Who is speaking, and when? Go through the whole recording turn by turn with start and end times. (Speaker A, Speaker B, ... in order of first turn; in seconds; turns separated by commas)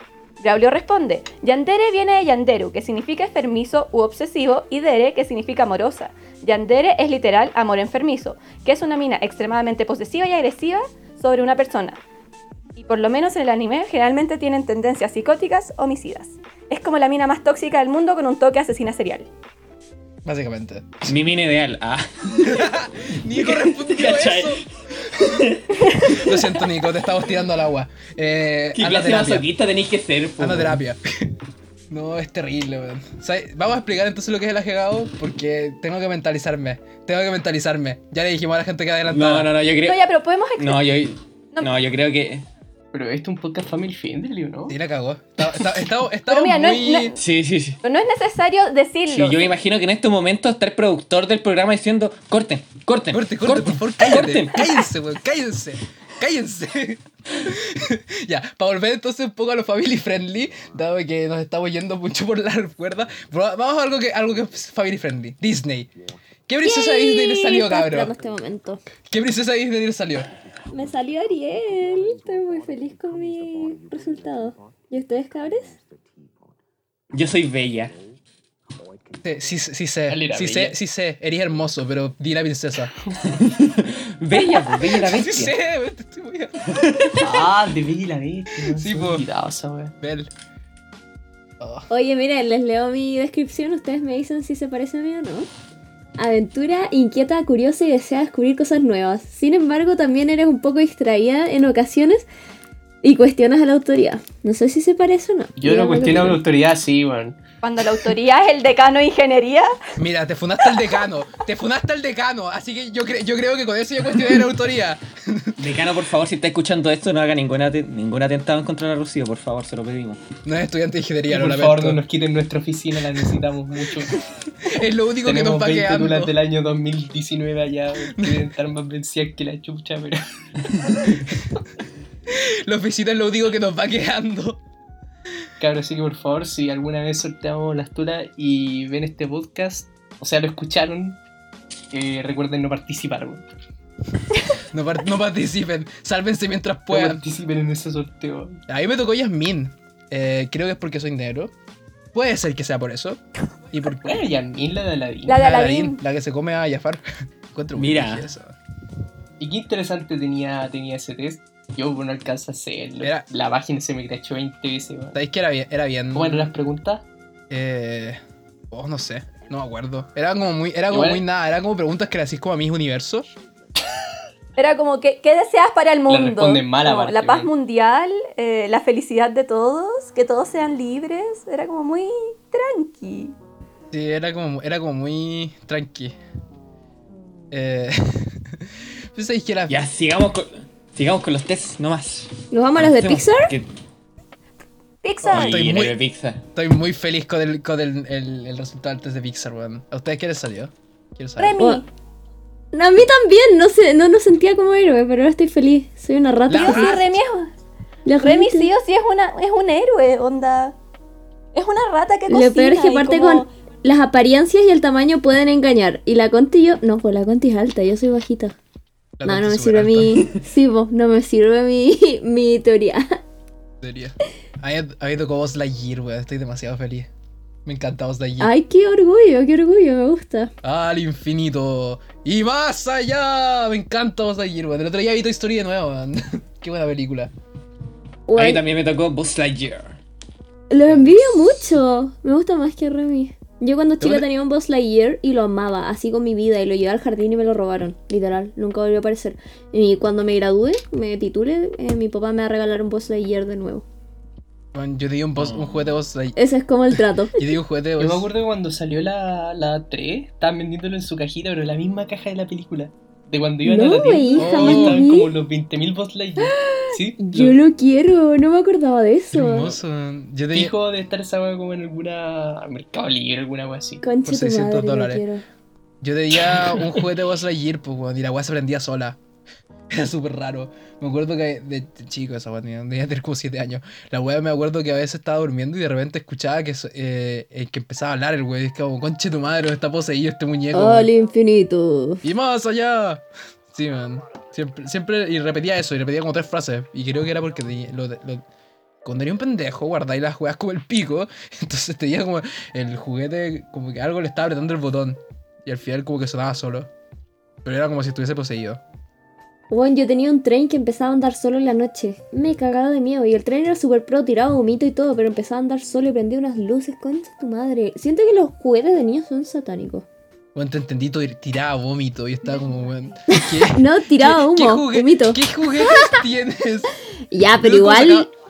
Speaker A: 0.4-12.0, Speaker A: 12.8-19.3, Speaker B: 20.2-21.1, Speaker C: 21.1-22.7, Speaker B: 22.4-24.6, Speaker C: 23.3-24.6, Speaker C: 25.1-26.4, Speaker B: 26.0-29.5, Speaker C: 28.7-30.8, Speaker B: 30.4-31.4, Speaker B: 31.9-39.5, Speaker C: 39.1-42.5, Speaker A: 39.8-40.8, Speaker D: 42.9-44.8, Speaker B: 44.7-47.1, Speaker A: 46.3-47.2, Speaker C: 47.2-47.8, Speaker A: 47.8-49.5, Speaker C: 49.1-54.8, Speaker B: 53.1-65.9, Speaker B: 66.5-68.1, Speaker E: 66.6-68.8, Speaker B: 69.1-70.3, Speaker E: 70.7-75.8, Speaker C: 77.1-78.0, Speaker B: 79.2-82.9, Speaker D: 80.1-80.8, Speaker C: 83.2-85.5, Speaker B: 84.9-87.3, Speaker C: 86.8-87.2, Speaker D: 87.2-89.9, Speaker B: 88.8-89.2, Speaker B: 90.0-90.3, Speaker B: 91.6-91.9, Speaker E: 91.9-95.5, Speaker E: 96.2-102.3, Speaker E: 103.0-106.4, Speaker D: 105.6-107.4, Speaker A: 107.6-109.7, Speaker B: 110.0-115.6, Speaker C: 115.6-120.2, Speaker B: 120.5-122.0, Speaker D: 121.3-124.2, Speaker B: 124.6-126.3, Speaker D: 125.2-131.3, Speaker B: 128.2-128.4, Speaker B: 132.3-134.6, Speaker D: 135.6-141.2, Speaker D: 141.9-143.4, Speaker B: 144.6-147.2, Speaker D: 146.9-148.6, Speaker B: 148.7-151.5, Speaker B: 152.1-153.2, Speaker B: 153.7-154.2, Speaker D: 154.0-155.4, Speaker A: 155.3-156.0, Speaker B: 155.3-158.6, Speaker C: 157.8-158.3, Speaker D: 159.4-165.2, Speaker B: 163.0-163.3, Speaker B: 165.1-166.5, Speaker D: 166.1-167.1, Speaker B: 167.5-168.2, Speaker B: 168.7-173.3, Speaker D: 170.9-171.2, Speaker A: 174.6-183.3, Speaker D: 176.1-177.5, Speaker B: 183.9-186.2, Speaker B: 187.5-189.8, Speaker C: 189.7-193.7, Speaker E: 192.5-193.5, Speaker A: 195.0-195.6, Speaker B: 195.2-196.0, Speaker C: 195.3-196.4, Speaker B: 196.6-201.6, Speaker A: 201.4-201.9, Speaker E: 201.6-201.8, Speaker E: 202.7-207.0, Speaker B: 206.5-207.2, Speaker A: 206.5-207.5, Speaker E: 208.1-208.7, Speaker A: 208.2-210.8, Speaker A: 211.5-213.5, Speaker E: 212.3-218.6, Speaker B: 219.2-220.3, Speaker E: 219.2-223.2, Speaker B: 223.8-227.1, Speaker B: 227.7-228.5, Speaker E: 228.4-230.5, Speaker B: 230.6-237.3, Speaker E: 238.3-238.6, Speaker C: 238.3-240.0, Speaker E: 240.7-253.8, Speaker B: 244.0-244.3, Speaker B: 254.7-256.4, Speaker C: 255.4-255.8, Speaker E: 256.4-257.5, Speaker B: 256.9-258.3, Speaker D: 258.0-267.6, Speaker E: 263.6-265.3, Speaker B: 264.4-265.0, Speaker E: 266.4-269.8, Speaker B: 269.3-270.7, Speaker D: 270.5-274.0, Speaker E: 274.0-275.4, Speaker B: 274.2-275.2, Speaker B: 276.0-279.2, Speaker B: 279.9-291.1, Speaker E: 290.7-292.2, Speaker B: 292.2-298.4, Speaker B: 299.0-306.9, Speaker B: 307.6-308.8, Speaker E: 309.7-320.1, Speaker B: 320.6-326.9, Speaker E: 323.3-326.2, Speaker E: 327.3-328.3, Speaker B: 327.5-328.3